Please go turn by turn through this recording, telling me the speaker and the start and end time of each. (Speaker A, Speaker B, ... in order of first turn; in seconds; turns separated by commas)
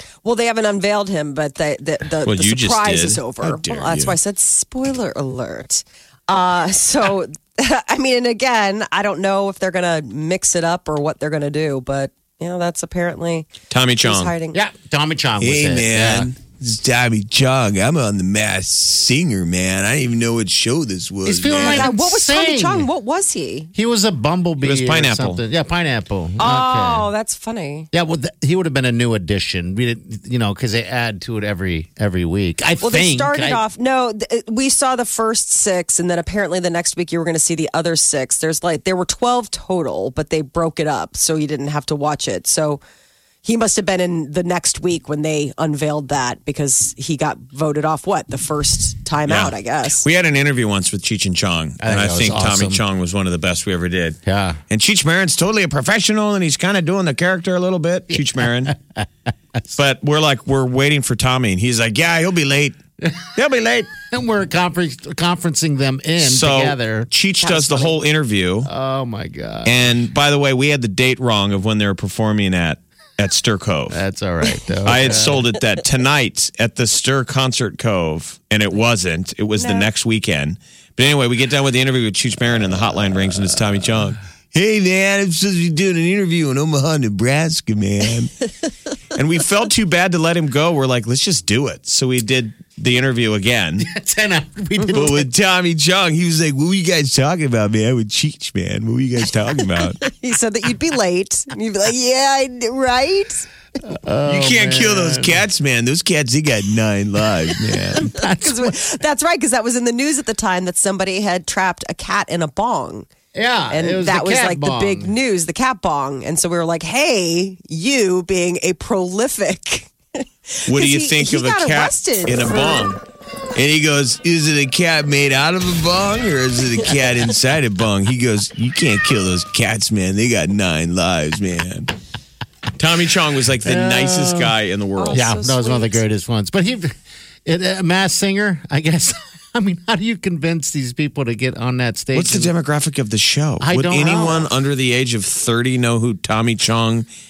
Speaker A: 0.2-13.5, Speaker B: 2.2-4.2, Speaker B: 13.7-14.3, Speaker A: 14.0-14.6, Speaker C: 14.5-16.3, Speaker B: 15.4-21.9, Speaker C: 21.2-22.9, Speaker A: 21.6-23.7, Speaker C: 23.8-27.1, Speaker B: 24.6-25.4, Speaker A: 26.4-27.9, Speaker C: 27.9-33.6, Speaker A: 32.8-42.8, Speaker A: 43.4-50.1, Speaker B: 49.3-54.2, Speaker C: 51.8-52.8, Speaker C: 54.2-54.6, Speaker B: 54.7-58.7, Speaker C: 58.1-59.1, Speaker B: 59.8-62.8, Speaker B: 63.3-63.9, Speaker C: 64.0-67.1, Speaker B: 66.2-68.7, Speaker A: 67.4-68.0, Speaker C: 68.7-70.0, Speaker B: 69.7-74.0, Speaker C: 73.9-75.4, Speaker B: 74.8-88.3, Speaker A: 79.6-79.9, Speaker B: 89.2-93.8, Speaker C: 93.8-95.2, Speaker A: 94.8-95.1, Speaker B: 94.9-100.0, Speaker A: 100.0-103.5, Speaker C: 103.8-105.4, Speaker B: 104.2-108.0, Speaker C: 108.0-108.8, Speaker A: 108.0-113.1, Speaker C: 113.3-115.1, Speaker A: 113.7-119.9, Speaker A: 120.5-122.9, Speaker B: 120.7-123.0, Speaker B: 123.5-131.9, Speaker B: 132.8-135.2, Speaker C: 133.6-134.5, Speaker A: 135.0-136.0, Speaker C: 135.1-136.9, Speaker C: 137.4-142.5, Speaker B: 142.1-147.1, Speaker C: 143.6-144.5